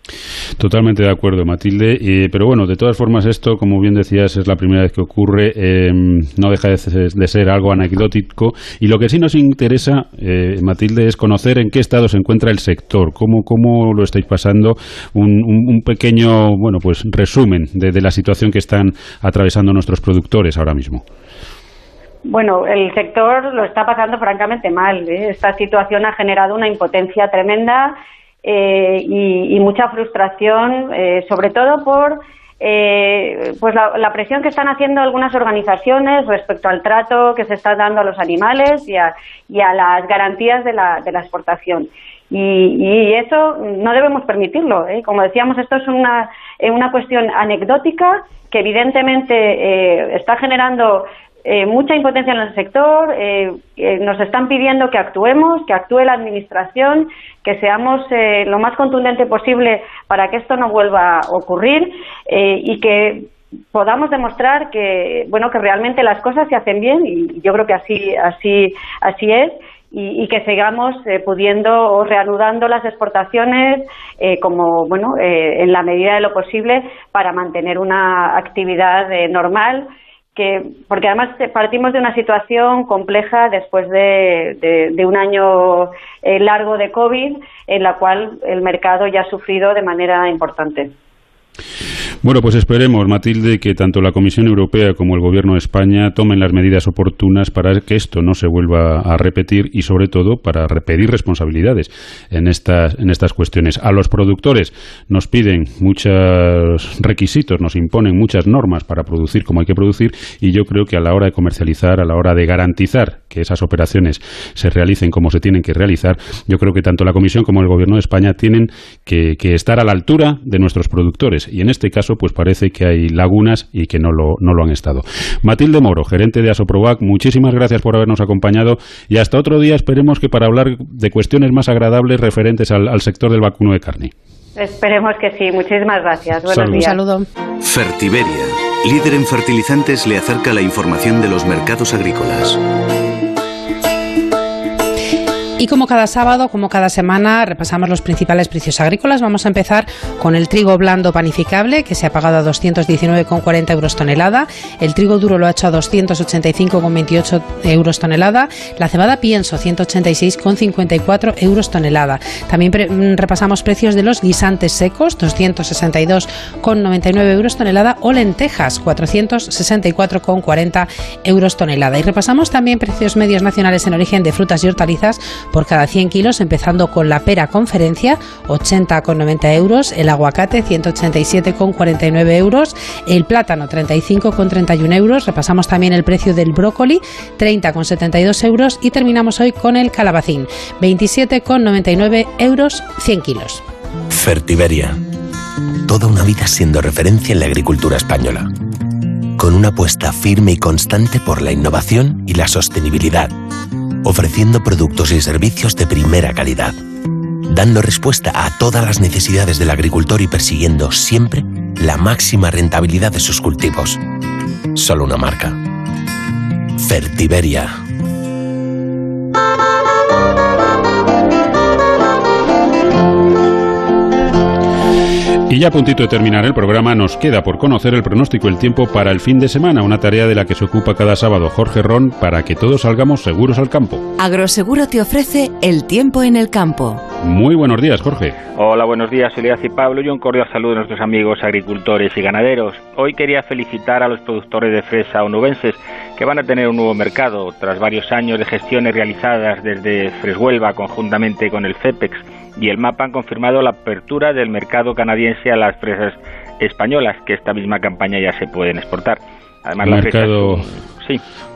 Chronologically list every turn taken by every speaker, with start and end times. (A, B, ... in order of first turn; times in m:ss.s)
0:00.6-0:21.0 A
0:22.3-1:30.9 B
1:32.2-2:14.1 A
2:14.6-2:17.0 B
2:16.5-2:16.8 A
2:16.6-2:17.3 C
2:17.6-2:22.6 D
2:25.6-3:13.6 C
3:14.1-3:15.0 E
3:15.8-3:18.5 E
3:19.4-3:23.3 E
3:24.0-3:26.8 E
3:27.4-3:34.0 E
3:34.7-3:35.6 E
3:36.8-3:37.7 E
3:45.5-3:54.0 A
3:54.2-3:57.0 F
3:57.2-3:58.4 A
3:58.6-4:21.2 G
4:19.8-4:20.7 A